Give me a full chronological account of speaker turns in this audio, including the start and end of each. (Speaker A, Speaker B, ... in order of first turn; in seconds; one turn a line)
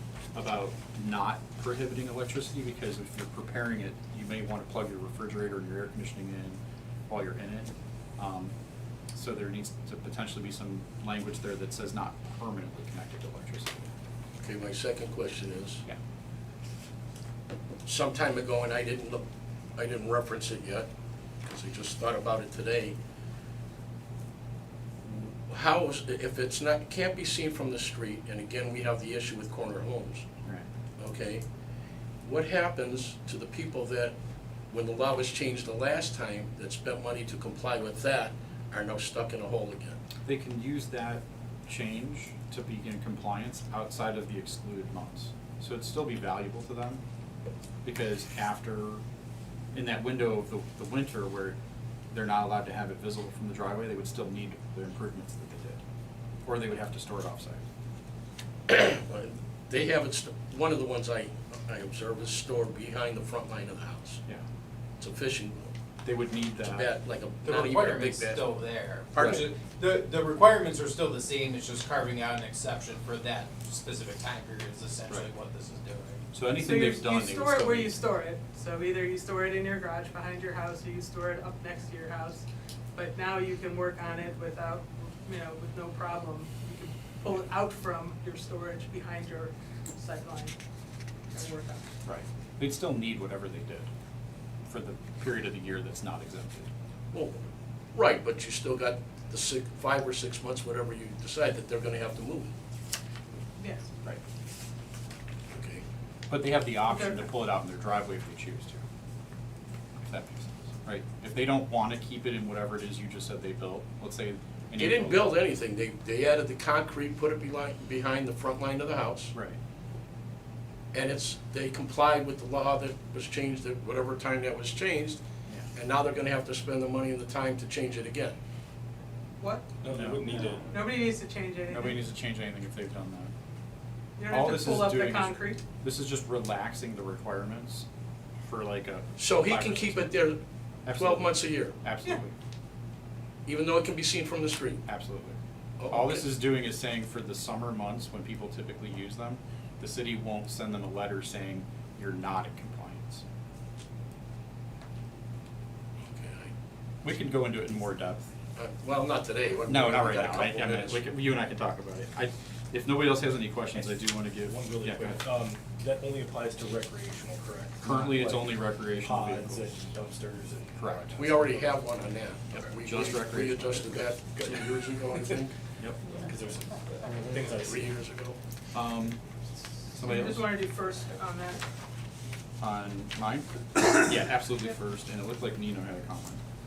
Speaker A: 0.3-8.5
Speaker A: 9.1-13.9
Speaker B: 14.4-15.8
Speaker B: 17.8-19.2
Speaker B: 19.8-20.9
Speaker B: 21.4-23.0
Speaker B: 25.5-30.3
Speaker B: 31.0-31.4
Speaker B: 32.2-34.1
Speaker B: 34.7-40.0
Speaker A: 40.2-47.0
Speaker A: 47.8-49.0
Speaker A: 49.7-51.6
Speaker A: 52.1-55.8
Speaker A: 56.4-57.6
Speaker B: 58.7-64.2
Speaker B: 65.0-65.7
Speaker A: 66.0-66.9
Speaker B: 66.6-69.5
Speaker C: 67.4-76.2
Speaker A: 76.3-78.0
Speaker D: 76.5-90.5
Speaker D: 91.3-91.8
Speaker A: 92.0-93.9
Speaker A: 94.7-96.7
Speaker B: 97.1-97.4
Speaker B: 97.9-102.5
Speaker D: 103.6-103.9
Speaker B: 105.5-105.8
Speaker A: 106.3-108.8
Speaker D: 106.8-107.3
Speaker A: 110.0-115.3
Speaker B: 114.8-119.3
Speaker B: 120.9-125.2
Speaker B: 125.7-128.3
Speaker D: 129.4-129.7
Speaker E: 129.8-130.9
Speaker A: 129.9-130.5
Speaker D: 130.7-132.0
Speaker A: 131.7-133.3
Speaker D: 134.2-135.6
Speaker A: 134.3-137.9
Speaker A: 138.4-140.1
Speaker B: 139.2-140.4
Speaker A: 140.8-142.3
Speaker B: 140.9-141.8
Speaker B: 143.4-144.8
Speaker A: 144.8-145.4
Speaker B: 145.8-146.2
Speaker A: 145.9-153.2
Speaker B: 156.0-156.5
Speaker A: 157.0-158.3
Speaker B: 158.6-161.0
Speaker A: 159.7-165.2
Speaker E: 163.7-171.8
Speaker A: 167.8-169.7
Speaker A: 170.8-171.1
Speaker B: 171.2-175.5
Speaker A: 172.5-174.1
Speaker E: 176.1-177.9
Speaker B: 177.2-178.4
Speaker A: 178.7-179.2
Speaker A: 179.9-180.5
Speaker D: 180.0-181.6
Speaker A: 182.6-186.4